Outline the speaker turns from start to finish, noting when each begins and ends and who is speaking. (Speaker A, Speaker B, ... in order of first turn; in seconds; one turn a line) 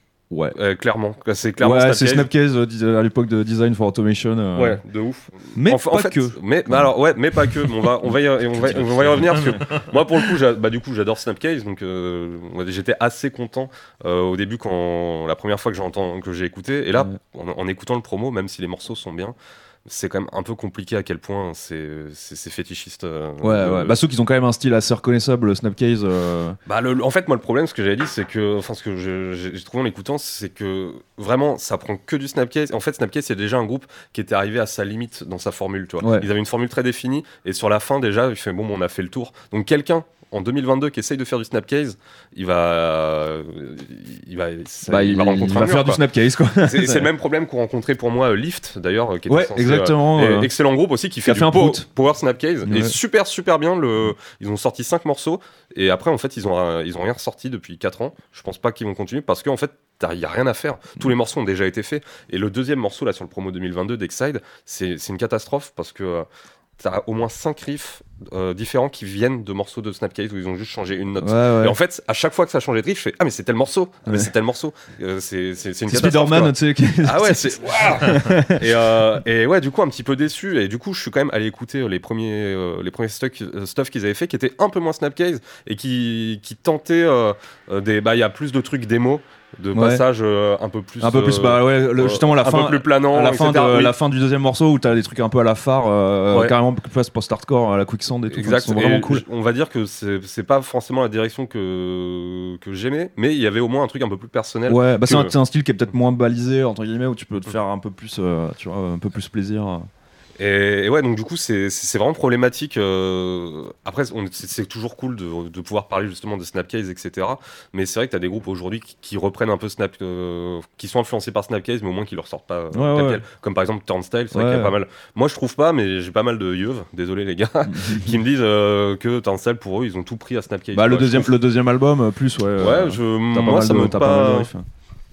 Speaker A: 0.3-0.6
Speaker B: 0.5-2.3
Speaker A: 1.6-4.8
Speaker B: 4.5-19.3
Speaker A: 5.5-6.9
Speaker A: 8.6-9.6
Speaker B: 19.9-24.0
Speaker A: 23.4-26.6
Speaker B: 26.7-46.0
Speaker A: 36.0-36.3
Speaker A: 44.9-47.1
Speaker B: 46.6-66.3
Speaker A: 49.3-50.5
Speaker A: 51.2-51.9
Speaker A: 52.6-53.0
Speaker B: 66.8-93.9
Speaker A: 71.2-71.8
Speaker A: 74.0-74.3
Speaker A: 75.9-78.7
Speaker A: 89.7-90.0
Speaker A: 91.0-99.2
Speaker B: 96.3-96.5
Speaker B: 98.3-105.3
Speaker A: 104.7-109.9
Speaker B: 110.4-131.3
Speaker A: 122.7-123.2
Speaker A: 124.3-124.8
Speaker A: 127.7-128.1
Speaker A: 130.7-134.7
Speaker B: 132.6-134.5